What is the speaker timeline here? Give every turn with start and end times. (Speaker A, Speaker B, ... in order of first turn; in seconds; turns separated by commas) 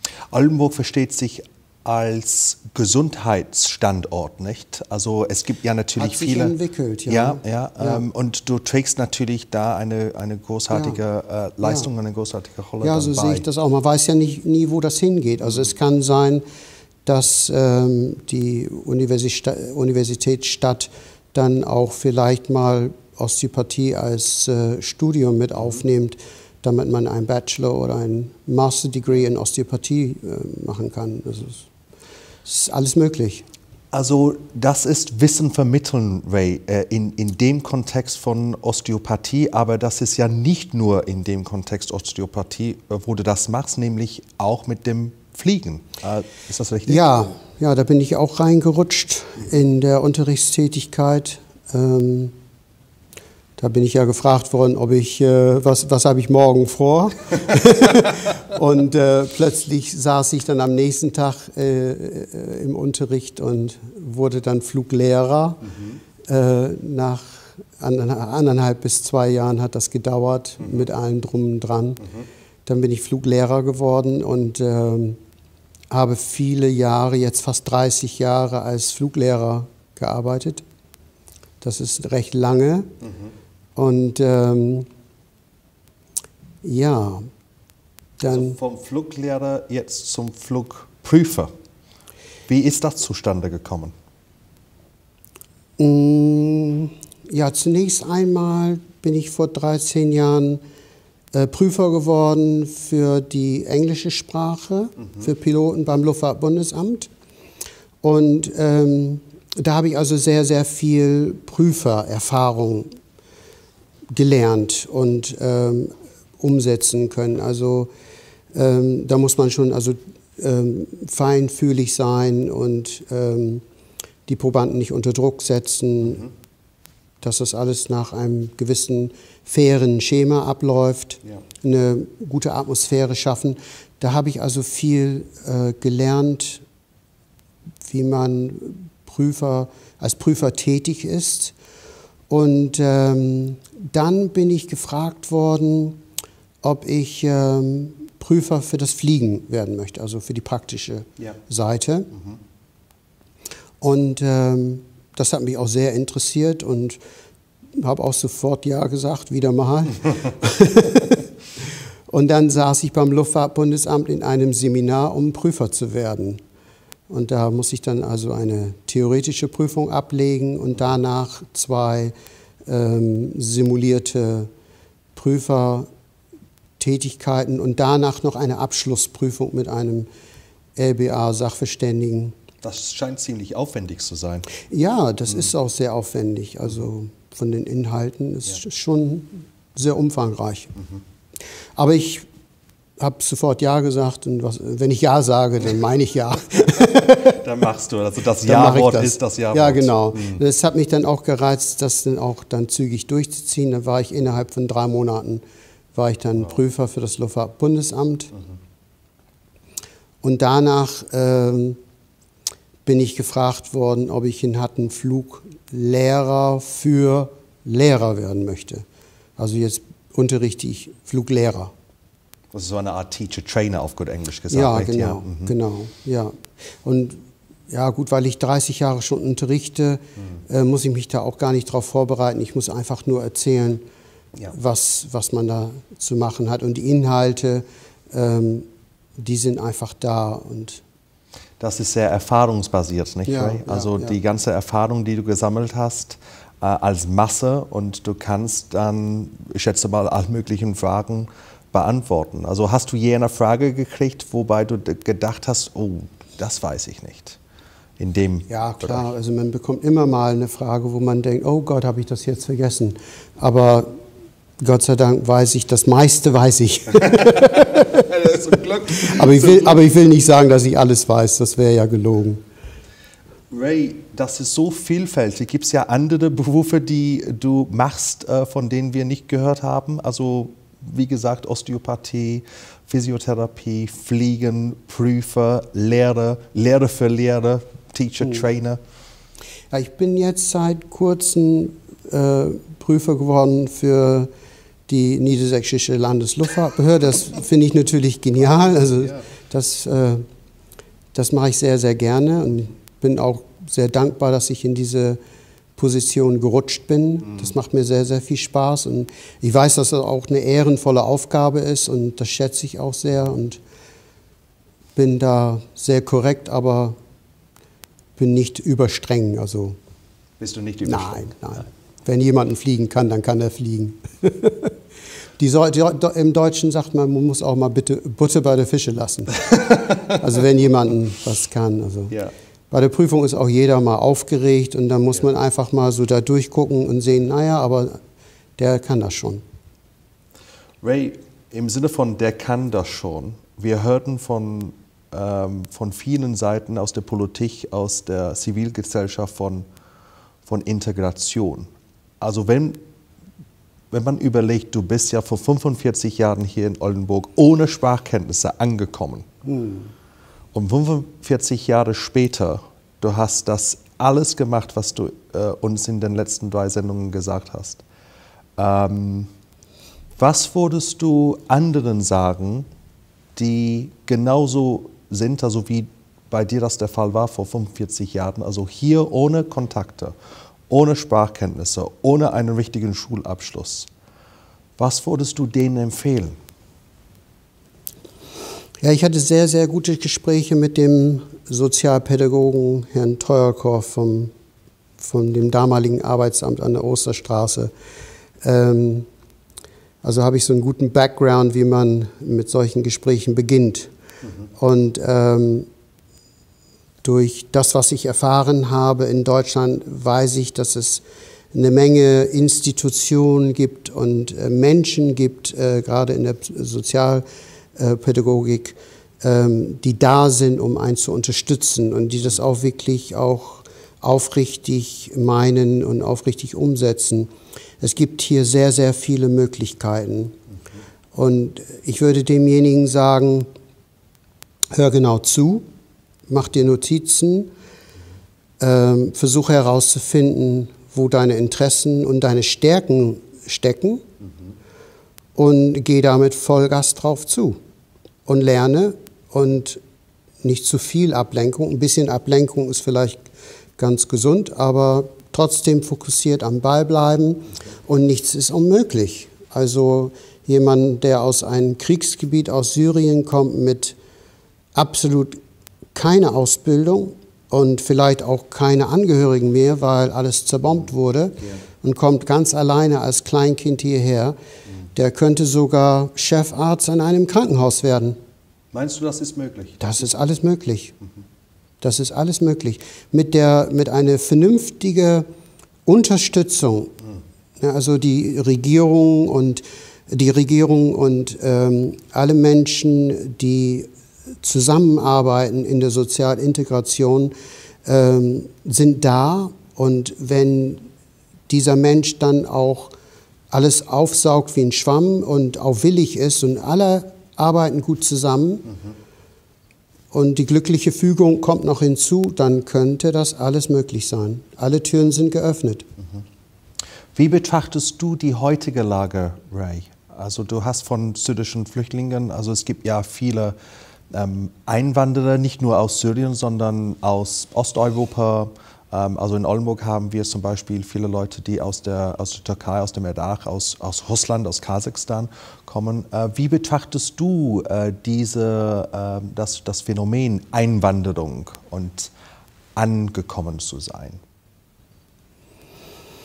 Speaker A: 0.3-6.5, Speaker B: 6.0-8.0, Speaker A: 7.1-13.4, Speaker B: 10.7-11.0, Speaker B: 11.6-11.9, Speaker B: 12.8-16.4, Speaker B: 17.1-31.7, Speaker B: 32.4-33.5, Speaker A: 33.9-47.0, Speaker B: 46.9-52.3, Speaker B: 53.6-65.7, Speaker B: 66.3-72.0, Speaker B: 72.7-75.2, Speaker B: 75.9-80.6, Speaker B: 81.6-82.9, Speaker B: 83.8-84.9, Speaker B: 86.6-87.3, Speaker B: 88.2-88.6, Speaker A: 88.3-91.5, Speaker A: 92.5-93.9, Speaker B: 95.8-100.6, Speaker B: 101.3-107.1, Speaker B: 108.0-112.9, Speaker B: 114.1-117.9, Speaker B: 118.5-123.6, Speaker B: 124.3-126.3, Speaker B: 127.2-136.6, Speaker B: 137.8-141.5, Speaker B: 142.3-146.0, Speaker B: 146.6-152.1, Speaker B: 153.8-157.0, Speaker B: 157.8-161.3, Speaker B: 162.1-166.4, Speaker B: 167.1-172.1, Speaker B: 172.7-174.5, Speaker B: 175.1-175.9, Speaker B: 176.8-180.1, Speaker B: 180.8-182.4, Speaker A: 182.6-184.5, Speaker B: 184.7-190.8, Speaker B: 191.8-192.3, Speaker B: 193.0-197.4, Speaker A: 197.1-200.4, Speaker B: 198.4-205.4, Speaker B: 205.9-208.3, Speaker B: 210.2-211.8, Speaker B: 212.8-218.8, Speaker B: 219.4-221.7, Speaker A: 222.5-225.5, Speaker B: 224.5-233.8, Speaker B: 234.5-240.8, Speaker A: 241.6-257.4, Speaker B: 243.3-244.2, Speaker A: 258.0-259.0, Speaker B: 258.5-263.9, Speaker B: 264.6-268.1, Speaker A: 267.1-269.9, Speaker B: 268.9-272.4, Speaker A: 273.5-288.8, Speaker B: 289.7-294.3, Speaker B: 294.9-300.2, Speaker B: 301.1-305.2, Speaker B: 305.8-313.6, Speaker B: 314.9-317.0, Speaker B: 318.2-319.8, Speaker A: 320.4-321.3, Speaker B: 320.8-324.7, Speaker B: 325.4-332.1, Speaker B: 332.7-338.0, Speaker B: 338.6-339.4, Speaker A: 340.8-349.7, Speaker A: 350.4-351.7, Speaker A: 352.2-352.8, Speaker A: 353.9-359.3, Speaker B: 359.4-359.9, Speaker A: 360.5-367.8, Speaker A: 368.6-369.3, Speaker A: 370.2-372.7, Speaker A: 373.4-380.1, Speaker A: 380.7-383.9, Speaker A: 384.8-386.4, Speaker B: 388.8-394.3, Speaker B: 395.0-397.7, Speaker B: 398.4-399.1, Speaker B: 400.0-403.9, Speaker B: 404.5-405.7, Speaker B: 407.0-430.4, Speaker B: 431.1-433.5, Speaker B: 434.7-435.7, Speaker B: 436.3-437.5, Speaker B: 438.6-444.0, Speaker B: 445.4-447.6, Speaker B: 448.2-449.8, Speaker B: 450.4-453.2, Speaker B: 453.8-464.0, Speaker B: 464.7-465.4, Speaker B: 465.9-474.4, Speaker B: 474.9-478.2, Speaker A: 478.7-479.9, Speaker B: 479.8-480.9, Speaker B: 481.8-485.3, Speaker B: 485.9-486.9, Speaker B: 487.6-493.9, Speaker B: 494.4-497.3, Speaker B: 497.8-500.8, Speaker B: 501.5-502.9, Speaker B: 503.5-508.7, Speaker B: 510.1-515.9, Speaker A: 517.1-523.6, Speaker A: 524.1-542.1, Speaker A: 542.8-544.2